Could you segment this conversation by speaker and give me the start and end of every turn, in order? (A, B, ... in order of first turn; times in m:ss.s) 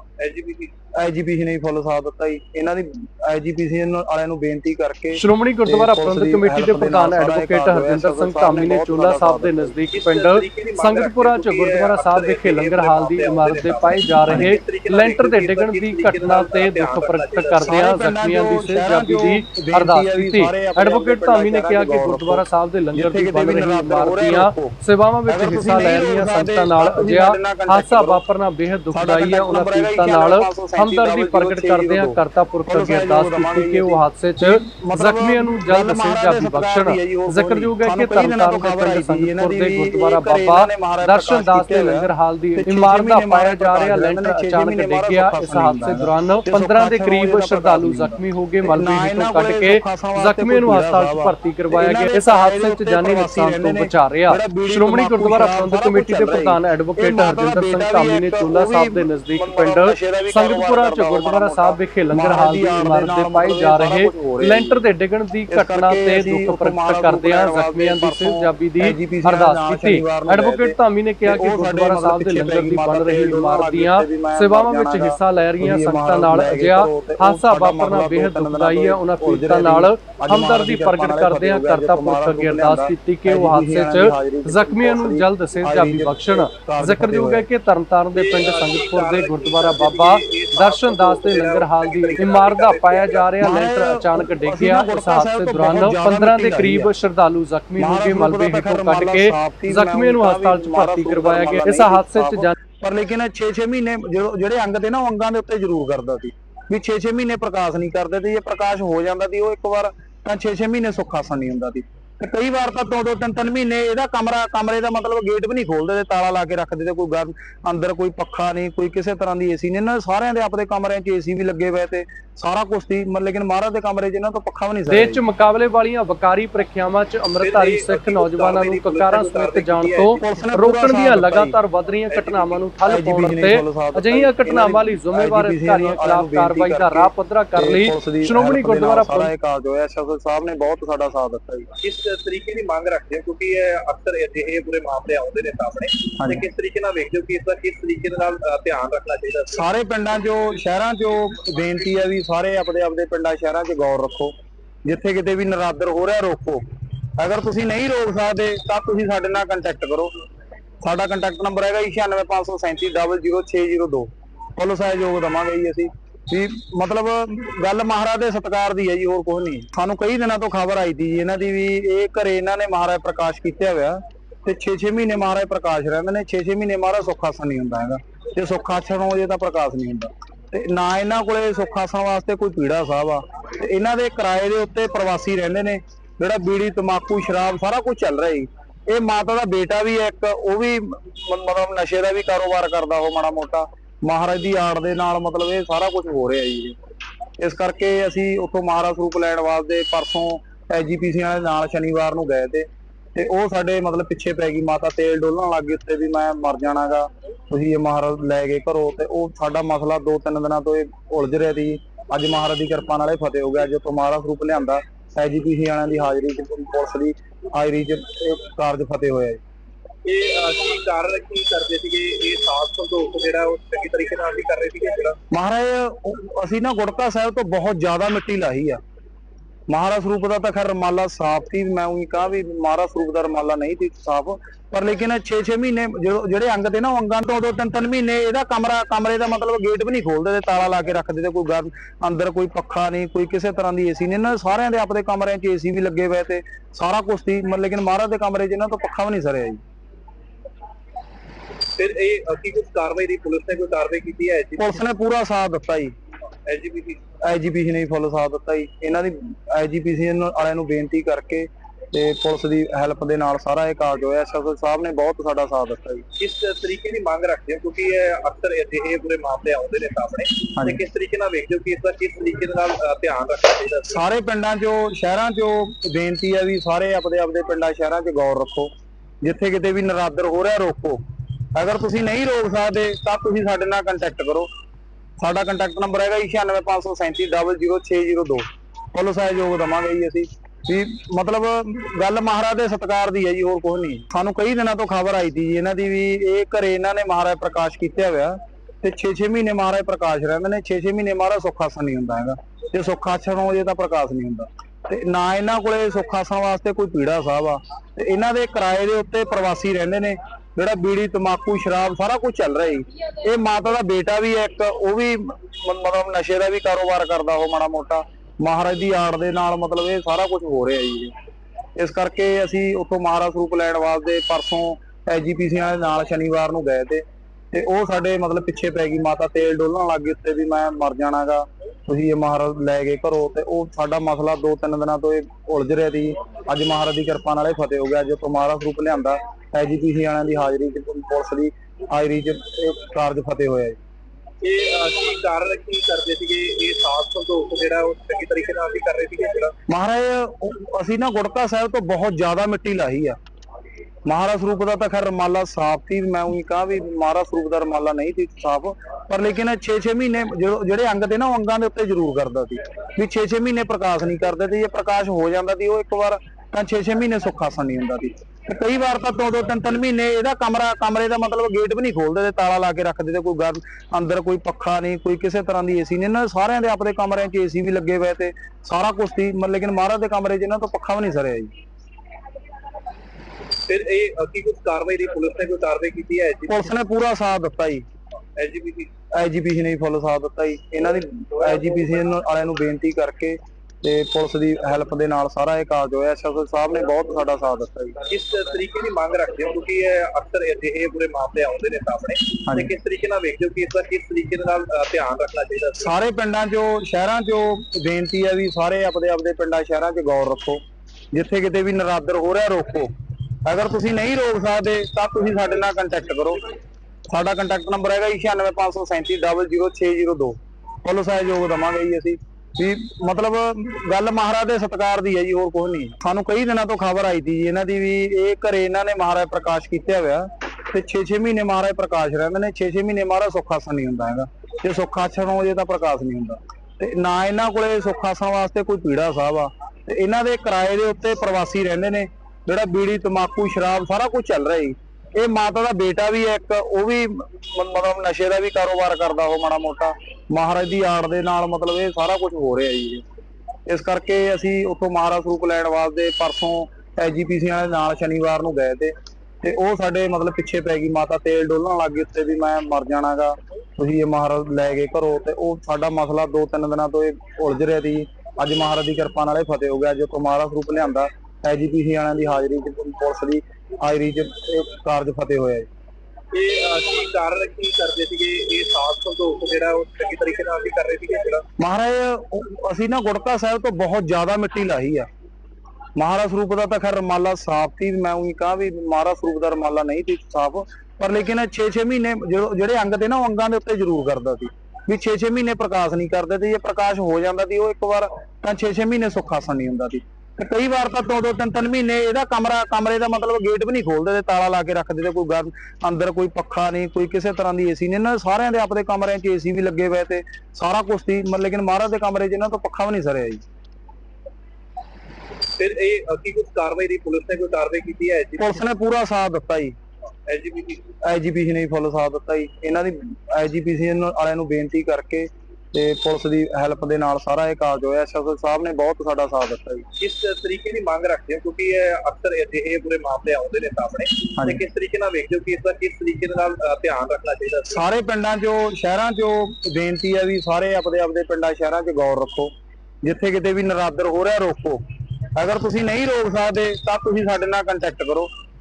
0:00.2-0:00.7 A
0:00.9-0:09.8 B
0:05.2-1:42.6 C
0:09.9-0:17.8 A
0:14.3-0:14.5 B
0:17.7-0:28.2 B
0:28.9-1:04.8 B
1:05.5-1:27.5 B
1:28.1-1:33.3 A
1:33.4-1:37.0 B
1:37.8-2:05.2 B
2:04.9-2:19.3 C
2:07.4-2:10.2 A
2:10.2-2:11.6 B
2:12.1-2:12.7 A
2:12.9-2:21.7 B
2:21.8-2:29.6 A
2:26.2-2:26.4 B
2:29.5-2:34.3 B
2:34.9-2:36.6 B
2:37.2-2:40.1 B
2:40.8-3:16.8 B
3:17.4-3:39.4 B
3:40.0-3:45.2 A
3:45.3-3:48.8 B
3:49.7-4:09.6 B
4:11.8-4:14.8 A
4:14.6-4:15.9 B
4:16.5-4:17.0 A
4:17.2-4:26.0 B
4:26.2-4:34.0 A
4:33.9-4:38.7 B
4:39.2-4:41.0 B
4:41.5-4:44.5 B
4:45.2-5:21.1 B
5:21.8-5:43.8 B
5:44.4-5:49.5 A
5:49.7-5:53.2 B
5:54.1-6:21.5 B
6:23.7-6:26.7 A
6:26.5-6:27.8 B
6:28.4-6:28.9 A
6:29.1-6:38.0 B
6:38.1-6:45.9 A
6:45.8-6:52.9 B
6:53.4-6:56.4 B
6:57.1-7:33.0 B
7:33.7-7:55.7 B
7:56.3-8:01.4 A
8:01.6-8:05.1 B
8:06.0-8:33.4 B
8:35.6-8:38.6 A
8:38.4-8:39.8 B
8:40.3-8:40.8 A
8:41.0-8:49.9 B
8:50.0-8:57.8 A
8:57.7-9:02.5 B
9:03.0-9:04.8 B
9:05.4-9:08.3 B